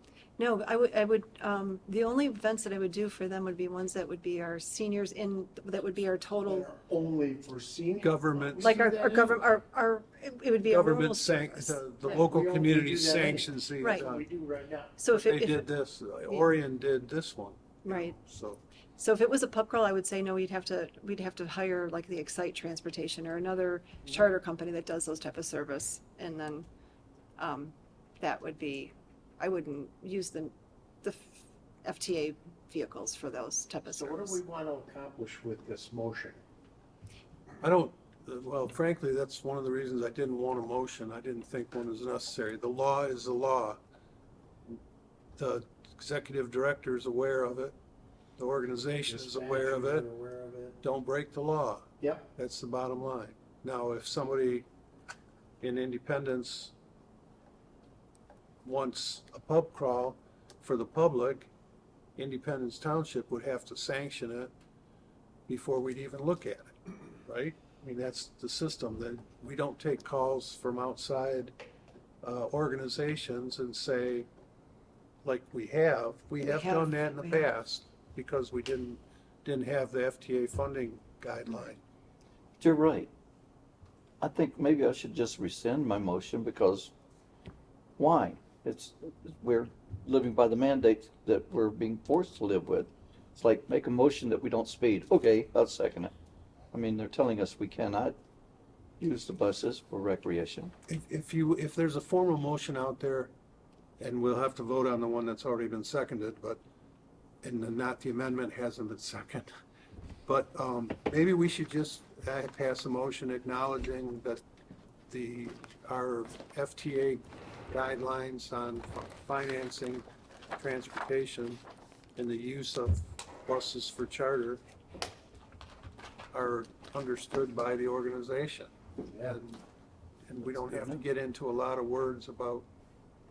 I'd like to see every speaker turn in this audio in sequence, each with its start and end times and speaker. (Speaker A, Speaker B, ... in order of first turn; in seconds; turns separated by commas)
Speaker A: 0.4-6.7, Speaker B: 6.4-9.4, Speaker C: 8.0-8.8, Speaker A: 8.6-12.2, Speaker C: 10.7-14.2, Speaker B: 12.0-14.9, Speaker A: 13.8-14.1, Speaker A: 15.0-15.7, Speaker C: 15.1-18.6, Speaker A: 16.2-16.5, Speaker A: 17.8-18.2, Speaker A: 18.9-26.7, Speaker A: 27.4-34.4, Speaker B: 33.9-36.4, Speaker C: 37.6-43.8, Speaker C: 45.4-47.8, Speaker C: 48.4-50.0, Speaker B: 49.0-50.8, Speaker C: 50.8-54.6, Speaker B: 52.0-52.3, Speaker C: 55.6-56.7, Speaker C: 58.6-61.5, Speaker C: 62.2-64.5, Speaker C: 65.5-71.5, Speaker C: 72.2-74.3, Speaker C: 75.2-81.8, Speaker A: 76.4-77.5, Speaker D: 82.6-83.1, Speaker D: 84.2-86.9, Speaker D: 88.0-96.1, Speaker D: 96.7-98.2, Speaker D: 99.0-100.7, Speaker C: 100.9-103.3, Speaker C: 104.0-106.6, Speaker C: 107.4-109.5, Speaker C: 110.3-114.4, Speaker C: 115.1-120.0, Speaker C: 120.5-121.6, Speaker C: 122.2-124.6, Speaker C: 126.3-128.7, Speaker B: 129.0-129.4, Speaker C: 129.2-129.6, Speaker C: 130.3-132.7, Speaker D: 130.4-131.0